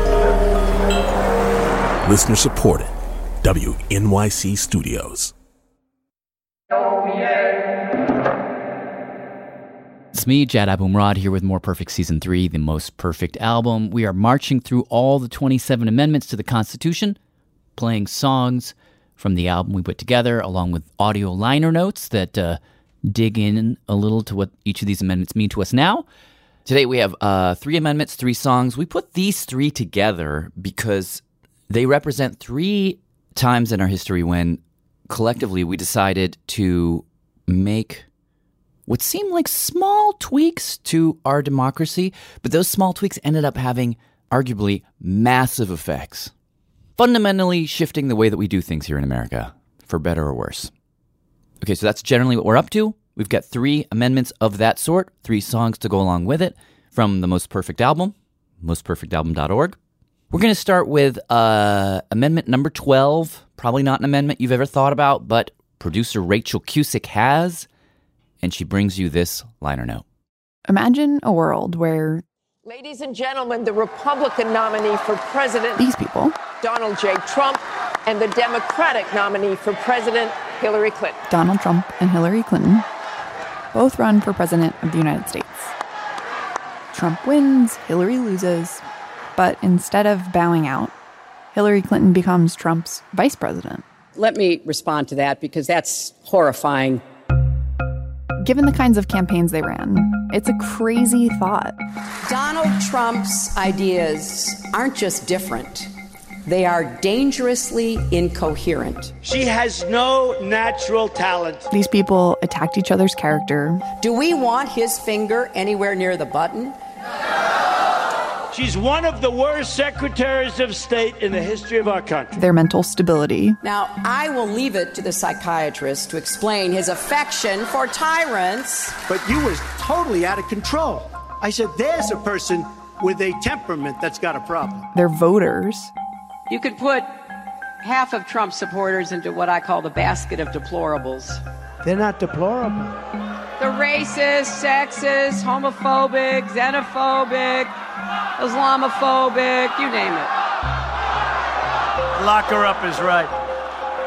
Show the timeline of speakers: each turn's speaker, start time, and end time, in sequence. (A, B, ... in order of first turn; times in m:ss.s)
0:02.0-0:05.3 A
0:10.1-0:17.2 B
0:17.8-0:26.0 B
0:26.7-0:38.0 B
0:38.9-0:46.3 B
0:47.0-0:50.7 B
0:51.6-0:59.8 B
1:00.3-1:07.7 B
1:08.4-1:10.0 B
1:10.7-1:12.2 C
1:12.6-1:15.8 D
1:15.8-1:16.4 C
1:16.6-1:21.2 D
1:21.3-1:22.9 C
1:23.7-1:25.7 C
1:26.9-1:28.8 C
1:29.4-1:30.9 C
1:31.5-1:33.8 C
1:34.2-1:37.0 E
1:38.4-1:41.8 C
1:42.3-1:45.9 E
1:46.5-1:49.1 E
1:49.2-1:51.7 F
1:51.7-1:53.8 C
1:54.0-1:56.8 E
1:58.5-2:02.3 F
2:02.4-2:03.6 C
2:03.6-2:09.0 E
2:09.1-2:14.9 F
2:14.9-2:15.9 C
2:16.5-2:17.1 E
2:17.8-2:21.4 E
2:21.8-2:22.9 F
2:23.6-2:27.7 E
2:28.4-2:30.3 E
2:32.2-2:33.3 F